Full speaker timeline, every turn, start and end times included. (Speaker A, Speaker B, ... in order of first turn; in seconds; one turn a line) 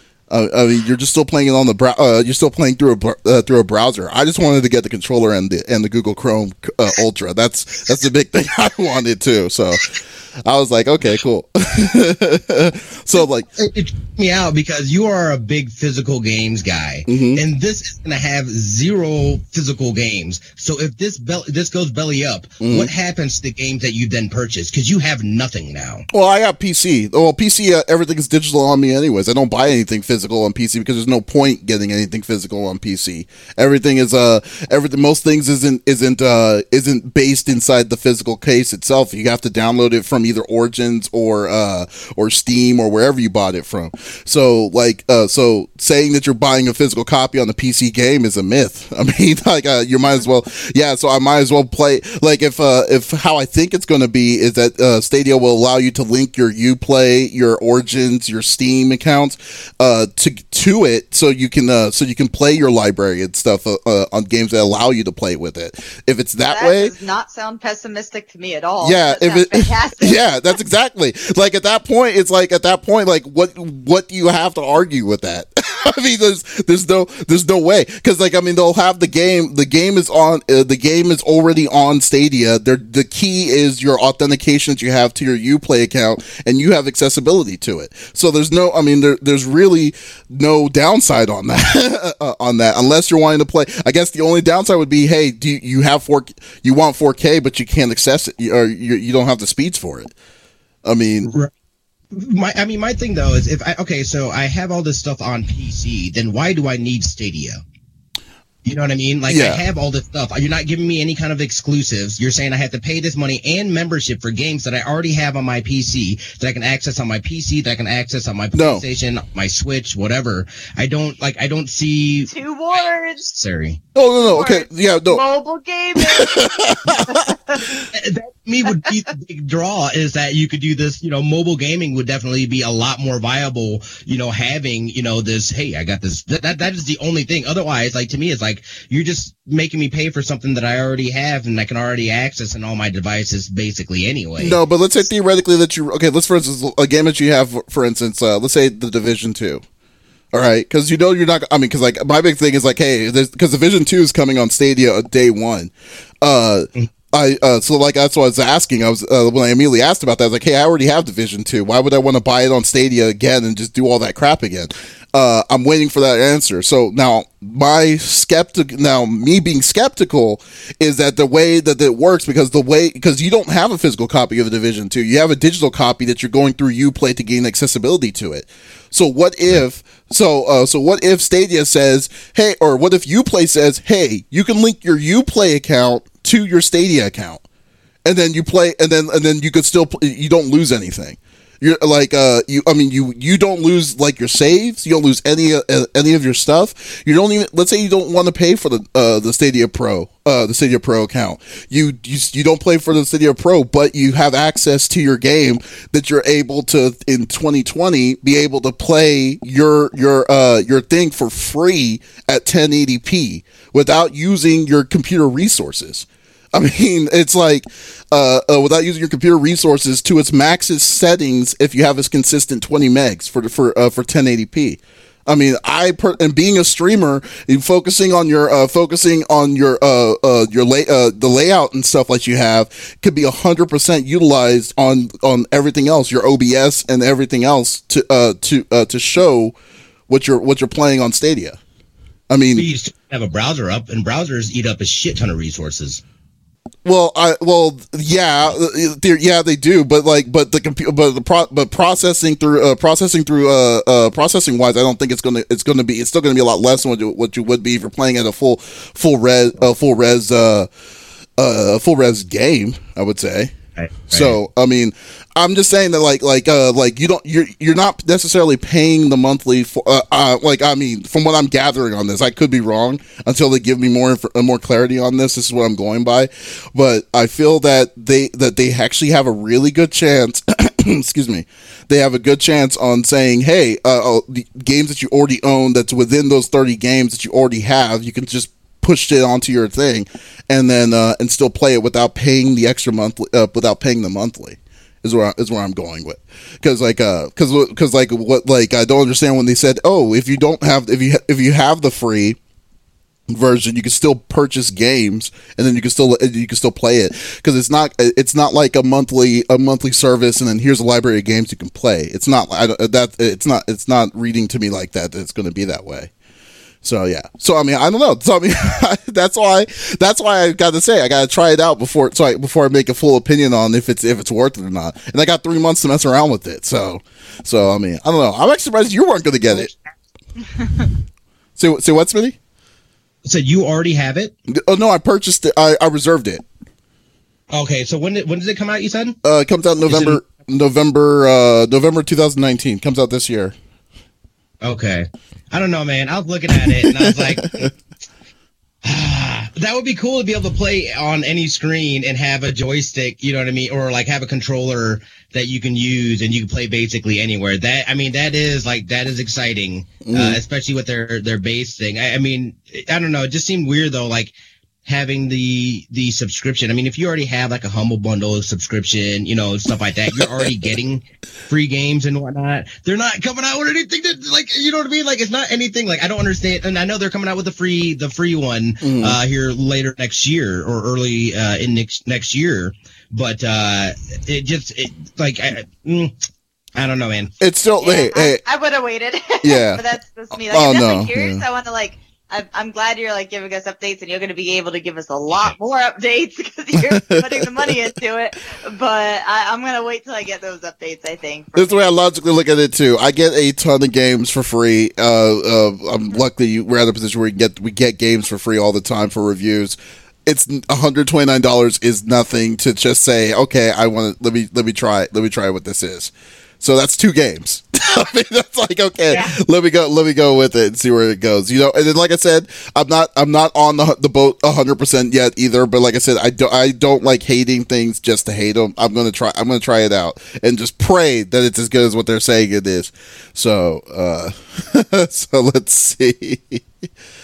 Speaker A: 0.3-13.5
Speaker B: 13.5-26.1
Speaker A: 17.1-17.4
Speaker A: 22.6-22.9
Speaker A: 26.1-66.9
Speaker C: 66.5-70.6
Speaker A: 68.8-100.1
Speaker A: 100.8-101.3
Speaker B: 101.2-101.5
Speaker B: 102.1-107.6
Speaker B: 108.7-122.3
Speaker A: 109.3-109.6
Speaker A: 118.5-118.8
Speaker C: 122.3-123.4
Speaker B: 123.3-123.8
Speaker A: 124.0-125.2
Speaker C: 124.3-127.6
Speaker A: 126.0-127.9
Speaker B: 127.9-144.6
Speaker A: 144.4-149.6
Speaker A: 150.3-187.4
Speaker A: 188.1-239.6
Speaker A: 240.1-241.6
Speaker A: 242.3-242.7
Speaker B: 242.6-246.0
Speaker A: 246.8-260.7
Speaker A: 261.4-263.6
Speaker B: 263.8-264.4
Speaker A: 264.1-302.4
Speaker A: 303.3-316.1
Speaker A: 316.8-329.7
Speaker C: 330.6-330.9
Speaker A: 331.6-332.4
Speaker B: 333.2-334.3
Speaker A: 334.5-336.4
Speaker B: 337.5-339.2
Speaker A: 339.2-343.6
Speaker B: 339.9-340.2
Speaker B: 344.6-347.7
Speaker A: 346.6-347.7
Speaker B: 348.8-364.3
Speaker A: 360.0-360.4
Speaker B: 364.9-386.2
Speaker A: 378.8-379.2
Speaker B: 386.8-387.4
Speaker A: 387.4-388.4
Speaker C: 387.8-401.9
Speaker A: 389.4-389.8
Speaker A: 390.4-391.4
Speaker A: 396.8-397.8
Speaker A: 401.6-436.6